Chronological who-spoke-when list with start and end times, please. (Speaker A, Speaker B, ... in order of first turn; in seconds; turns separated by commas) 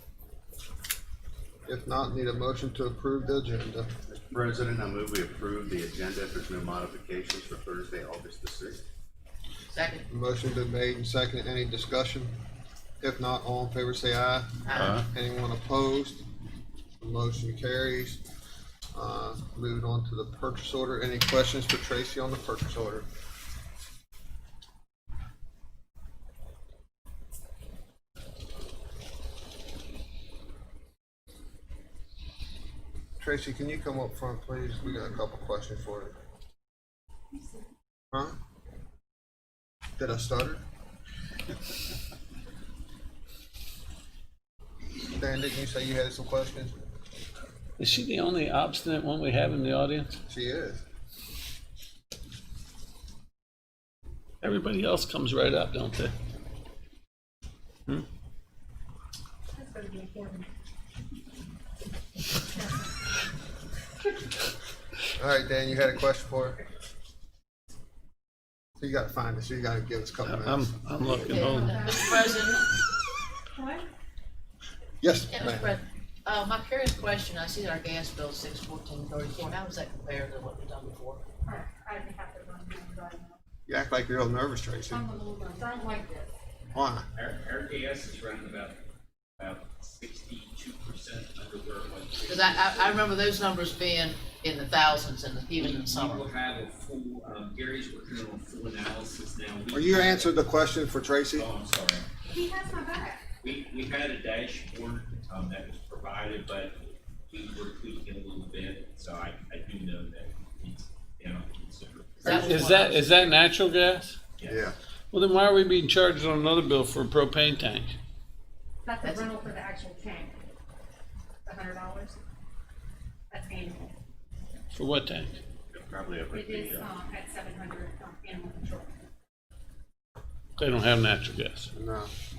Speaker A: 1.7-3.9, Speaker B: 4.1-8.8, Speaker C: 9.7-10.1, Speaker A: 10.1-12.3, Speaker A: 13.0-16.2, Speaker C: 14.7-15.0, Speaker B: 14.8-15.1, Speaker A: 17.0-18.2, Speaker A: 18.9-23.1, Speaker A: 33.2-36.2, Speaker A: 40.0-40.6, Speaker A: 45.2-46.7, Speaker D: 47.8-50.2, Speaker A: 50.3-50.8, Speaker D: 54.4-56.1, Speaker E: 59.5-60.5, Speaker A: 65.2-66.6, Speaker A: 68.8-70.7, Speaker D: 70.3-71.8, Speaker C: 71.1-72.7, Speaker E: 71.2-72.7, Speaker E: 73.5-73.9, Speaker A: 75.0-75.8, Speaker C: 75.3-81.2, Speaker E: 81.4-83.4, Speaker A: 83.7-85.0, Speaker E: 84.9-86.3, Speaker A: 86.7-87.1, Speaker F: 87.2-88.8, Speaker F: 89.4-93.1, Speaker C: 92.3-96.3, Speaker F: 95.6-100.4, Speaker A: 99.7-101.5, Speaker F: 101.3-102.1, Speaker E: 102.3-103.3, Speaker F: 103.4-106.8, Speaker F: 107.3-112.5, Speaker C: 112.2-113.3, Speaker D: 112.2-114.2, Speaker F: 114.4-114.7, Speaker A: 114.5-114.8, Speaker D: 115.1-118.0, Speaker E: 118.8-120.4, Speaker E: 121.5-122.2, Speaker E: 123.3-124.0, Speaker D: 124.7-125.3, Speaker B: 125.7-126.9, Speaker E: 126.3-129.0, Speaker D: 130.6-131.7, Speaker A: 131.7-132.1